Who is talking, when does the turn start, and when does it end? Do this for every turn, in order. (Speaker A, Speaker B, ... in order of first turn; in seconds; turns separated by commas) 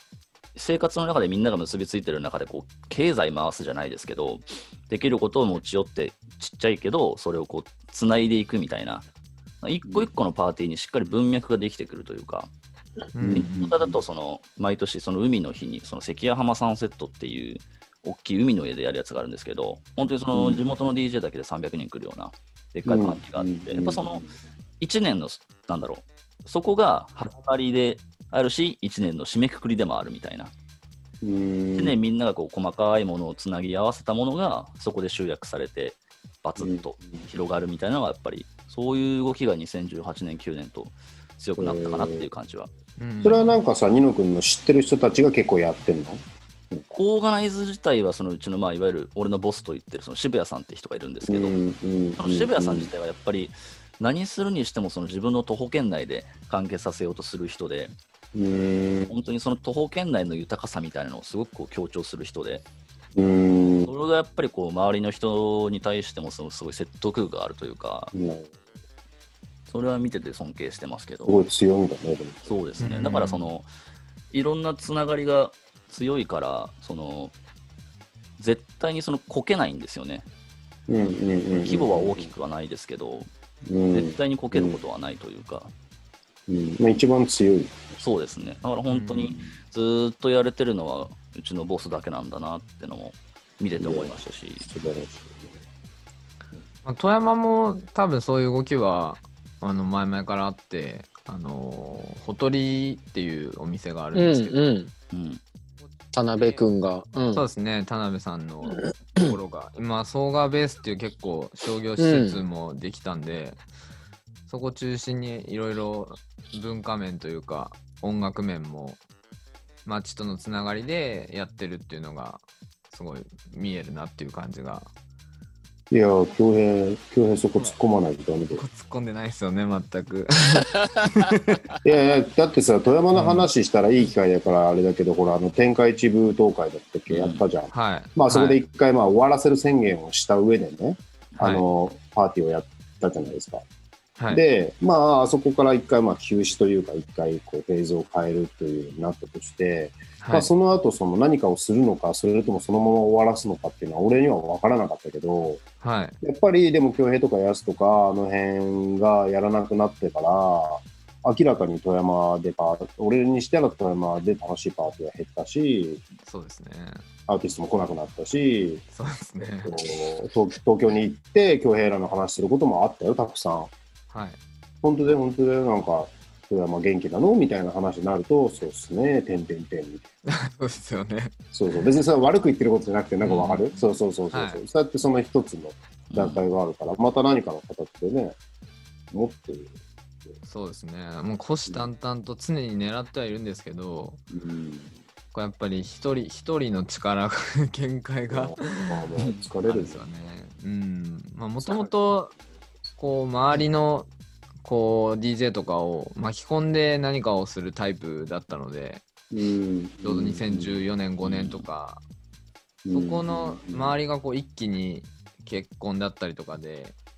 Speaker A: 0.6-9.1, Speaker A: 9.6-12.5, Speaker B: 13.1-13.7, Speaker C: 13.2-14.0, Speaker A: 13.3-30.5, Speaker C: 20.3-20.6, Speaker C: 22.9-24.2, Speaker C: 31.2-32.0, Speaker A: 31.8-42.7, Speaker C: 36.6-36.8, Speaker C: 41.6-42.3, Speaker B: 43.0-43.6, Speaker C: 43.2-47.0, Speaker A: 47.0-51.6, Speaker C: 51.2-52.9, Speaker A: 52.2-58.0, Speaker C: 58.3-59.1, Speaker A: 59.1-62.6, Speaker C: 63.1-63.9, Speaker A: 63.9-68.1, Speaker C: 68.1-68.5, Speaker A: 69.7-71.4, Speaker C: 71.2-72.8, Speaker A: 72.5-73.7, Speaker B: 72.8-73.5, Speaker A: 74.3-77.3, Speaker A: 78.4-80.3, Speaker C: 80.9-82.3, Speaker A: 81.6-83.3, Speaker C: 83.7-84.8, Speaker A: 83.9-85.7, Speaker C: 86.5-87.8, Speaker A: 88.0-94.7, Speaker B: 88.9-89.5, Speaker C: 93.8-95.5, Speaker B: 96.8-104.6, Speaker D: 104.1-104.9, Speaker A: 105.1-105.4, Speaker D: 106.1-107.5, Speaker B: 106.4-106.7, Speaker B: 107.3-113.6, Speaker D: 112.0-112.4, Speaker B: 114.5-119.0, Speaker B: 119.8-124.9, Speaker C: 125.9-128.6, Speaker B: 128.5-131.7, Speaker D: 130.8-131.3, Speaker C: 131.8-143.6, Speaker B: 133.1-133.5, Speaker A: 137.1-137.4, Speaker B: 137.7-138.6, Speaker B: 144.2-144.4, Speaker C: 144.3-155.6, Speaker B: 150.2-150.5, Speaker B: 155.8-156.2, Speaker C: 156.2-166.0, Speaker B: 166.2-167.0, Speaker C: 167.3-168.8, Speaker B: 168.9-169.9, Speaker C: 169.4-173.7, Speaker B: 174.1-174.4, Speaker C: 174.8-180.1, Speaker B: 180.3-181.3, Speaker C: 181.5-188.4, Speaker B: 183.2-183.7, Speaker B: 184.3-184.6, Speaker A: 186.1-186.4, Speaker C: 189.1-189.7, Speaker B: 190.5-194.2, Speaker C: 194.3-194.9, Speaker B: 195.3-202.3, Speaker C: 198.3-200.0, Speaker C: 201.7-201.9, Speaker B: 203.0-204.1, Speaker B: 204.6-209.1, Speaker C: 209.3-210.8, Speaker B: 210.0-212.0, Speaker A: 211.2-211.6, Speaker C: 212.8-214.0, Speaker B: 212.9-216.9